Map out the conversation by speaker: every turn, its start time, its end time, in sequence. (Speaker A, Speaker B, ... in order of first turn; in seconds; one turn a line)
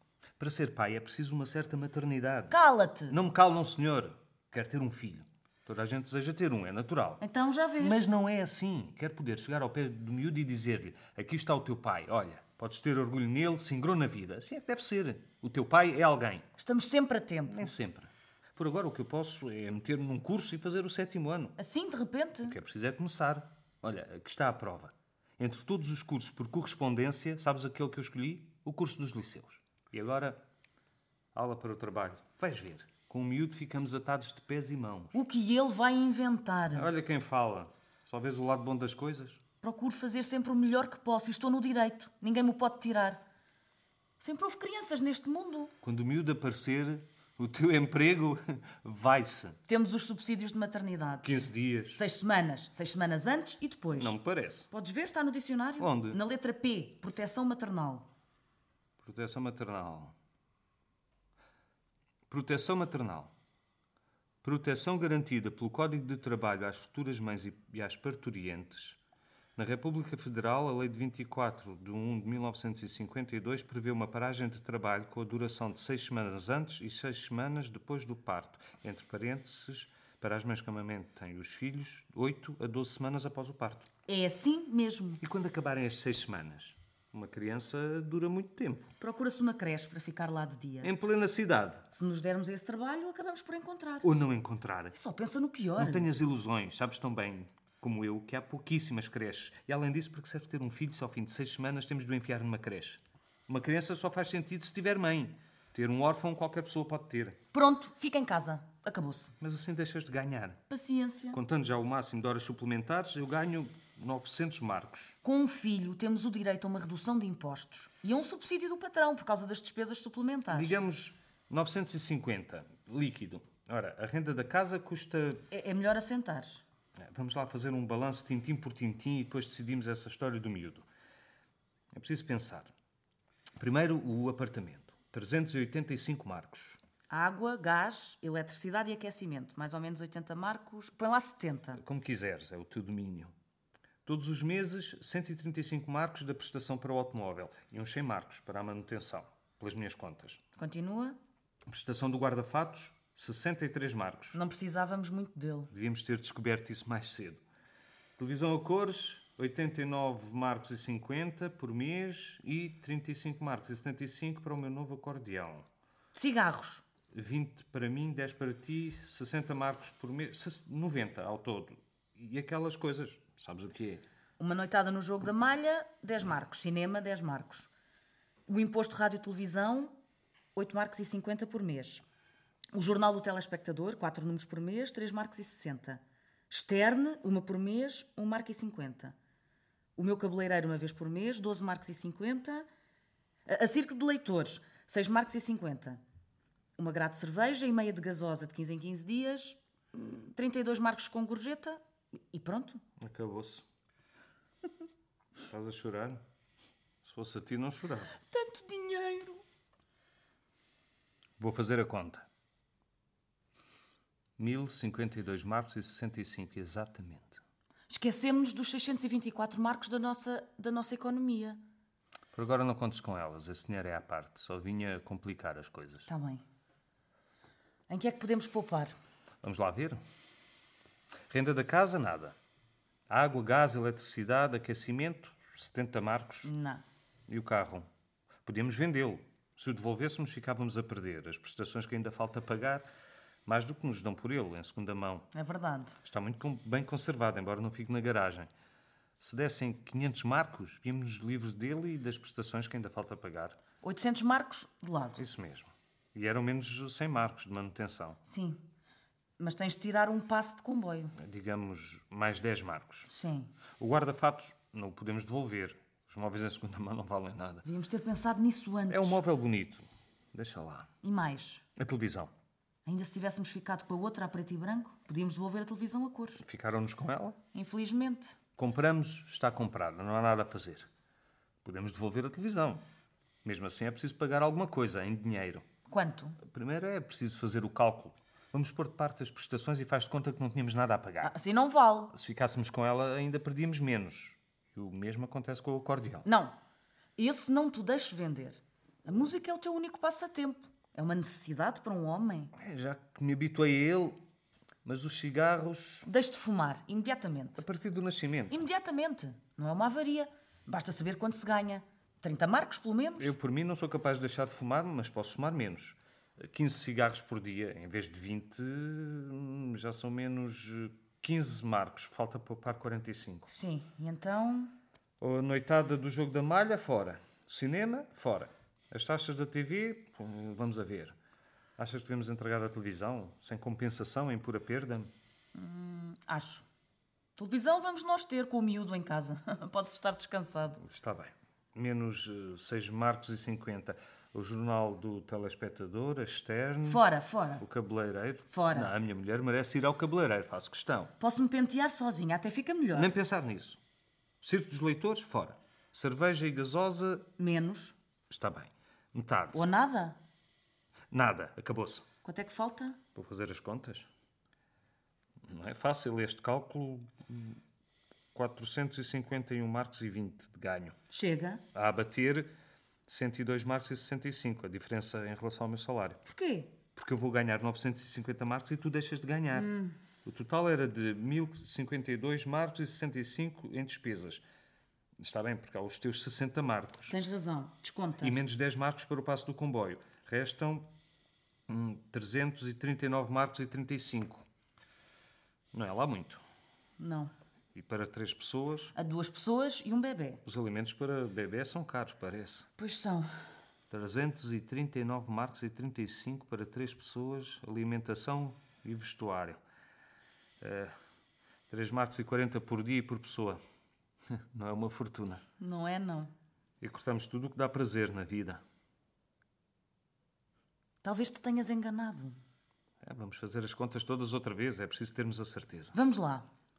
Speaker A: 0.4-2.6
Speaker B: 2.5-3.2
Speaker A: 3.1-7.2
Speaker B: 7.2-8.1
Speaker A: 7.8-16.5
Speaker B: 16.6-17.7
Speaker A: 17.5-21.6
Speaker B: 21.6-22.6
Speaker A: 22.4-30.4
Speaker A: 31.3-35.2
Speaker B: 35.1-36.9
Speaker A: 36.7-39.4
Speaker B: 39.6-43.2
Speaker B: 44.2-45.7
Speaker A: 45.8-49.6
Speaker B: 49.7-51.3
Speaker A: 51.2-52.0
Speaker B: 51.9-54.2
Speaker A: 53.9-54.7
Speaker B: 54.7-58.1
Speaker A: 55.8-56.2
Speaker A: 59.0-60.1
Speaker A: 62.3-63.3
Speaker A: 64.4-69.0
Speaker A: 69.6-83.9
Speaker B: 84.1-85.2
Speaker A: 85.2-88.9
Speaker B: 89.0-90.9
Speaker A: 90.8-91.8
Speaker B: 91.9-94.1
Speaker A: 94.0-95.0
Speaker B: 94.9-96.1
Speaker A: 95.8-107.4
Speaker B: 107.5-109.3
Speaker A: 109.4-110.6
Speaker B: 110.7-111.4
Speaker A: 111.3-115.2
Speaker B: 115.2-120.8
Speaker A: 120.5-125.4
Speaker B: 125.5-126.6
Speaker A: 127.0-130.9
Speaker A: 131.9-132.7
Speaker A: 133.6-136.8
Speaker B: 137.1-141.8
Speaker A: 141.8-143.3
Speaker A: 144.1-150.4
Speaker B: 150.6-151.2
Speaker A: 151.7-154.4
Speaker B: 154.3-155.7
Speaker A: 155.7-157.4
Speaker A: 158.2-165.7
Speaker B: 166.1-166.8
Speaker A: 167.1-174.0
Speaker B: 174.4-177.7
Speaker B: 178.5-179.9
Speaker B: 180.6-182.0
Speaker B: 182.7-189.2
Speaker B: 190.0-192.7
Speaker B: 193.5-196.0
Speaker B: 196.8-201.8
Speaker B: 202.3-202.8
Speaker A: 203.0-203.6
Speaker A: 205.5-206.2
Speaker A: 207.0-208.1
Speaker B: 208.2-209.4
Speaker A: 211.4-212.3
Speaker A: 214.4-217.4
Speaker B: 217.9-221.6
Speaker A: 222.3-226.1
Speaker B: 226.1-226.4
Speaker B: 227.9-228.9
Speaker A: 229.4-230.0
Speaker A: 231.3-232.4
Speaker A: 233.1-236.5
Speaker B: 236.4-236.8
Speaker A: 237.3-237.9
Speaker A: 238.4-242.9
Speaker A: 243.5-245.3
Speaker B: 245.3-246.0
Speaker A: 246.0-248.5
Speaker A: 249.2-253.6
Speaker B: 253.8-255.2
Speaker A: 255.2-258.2
Speaker B: 258.2-258.6
Speaker B: 259.4-261.1
Speaker A: 261.2-263.1
Speaker B: 263.1-263.5
Speaker A: 263.8-267.6
Speaker B: 267.6-269.2
Speaker A: 268.9-270.9
Speaker B: 271.0-271.6
Speaker A: 271.8-272.3
Speaker B: 272.9-276.4
Speaker A: 276.4-277.4
Speaker B: 277.5-278.4
Speaker A: 278.6-280.9
Speaker A: 281.6-282.8
Speaker A: 283.4-285.6
Speaker B: 285.9-286.4
Speaker A: 286.4-291.3
Speaker B: 291.2-292.1
Speaker A: 292.1-296.3
Speaker B: 296.3-296.5
Speaker B: 297.2-302.5
Speaker A: 302.6-304.2
Speaker A: 304.9-306.1
Speaker B: 306.1-307.6
Speaker A: 307.6-308.6
Speaker B: 308.5-313.3
Speaker A: 313.2-323.5
Speaker B: 323.5-324.7
Speaker A: 325.2-331.1
Speaker A: 331.8-335.1
Speaker B: 335.6-336.6
Speaker B: 337.4-340.8
Speaker A: 340.8-347.0
Speaker B: 346.8-347.6
Speaker A: 347.6-351.1
Speaker B: 348.5-348.9
Speaker B: 351.2-353.1
Speaker A: 352.9-353.8
Speaker A: 354.4-357.3
Speaker B: 357.4-357.9
Speaker A: 358.3-359.6
Speaker B: 359.5-360.2
Speaker A: 361.1-362.1
Speaker B: 362.2-363.0
Speaker A: 363.1-364.1
Speaker A: 365.5-367.6
Speaker A: 368.3-371.0
Speaker B: 371.1-371.6
Speaker A: 371.7-372.5
Speaker A: 373.1-376.2
Speaker B: 376.3-376.8
Speaker A: 376.9-379.7
Speaker B: 379.5-380.0
Speaker A: 380.2-384.4
Speaker A: 385.2-387.1
Speaker B: 387.1-388.4
Speaker A: 388.2-390.9
Speaker A: 391.7-394.4
Speaker A: 395.7-396.4
Speaker B: 397.0-397.3
Speaker A: 397.8-398.9
Speaker B: 399.0-400.4
Speaker A: 400.4-402.7
Speaker B: 402.8-403.4
Speaker A: 403.9-409.6
Speaker A: 410.6-410.9
Speaker A: 411.7-413.6
Speaker A: 414.3-415.4
Speaker B: 415.6-416.3
Speaker A: 416.8-418.6
Speaker B: 421.0-422.4
Speaker A: 423.0-425.9
Speaker B: 425.9-426.5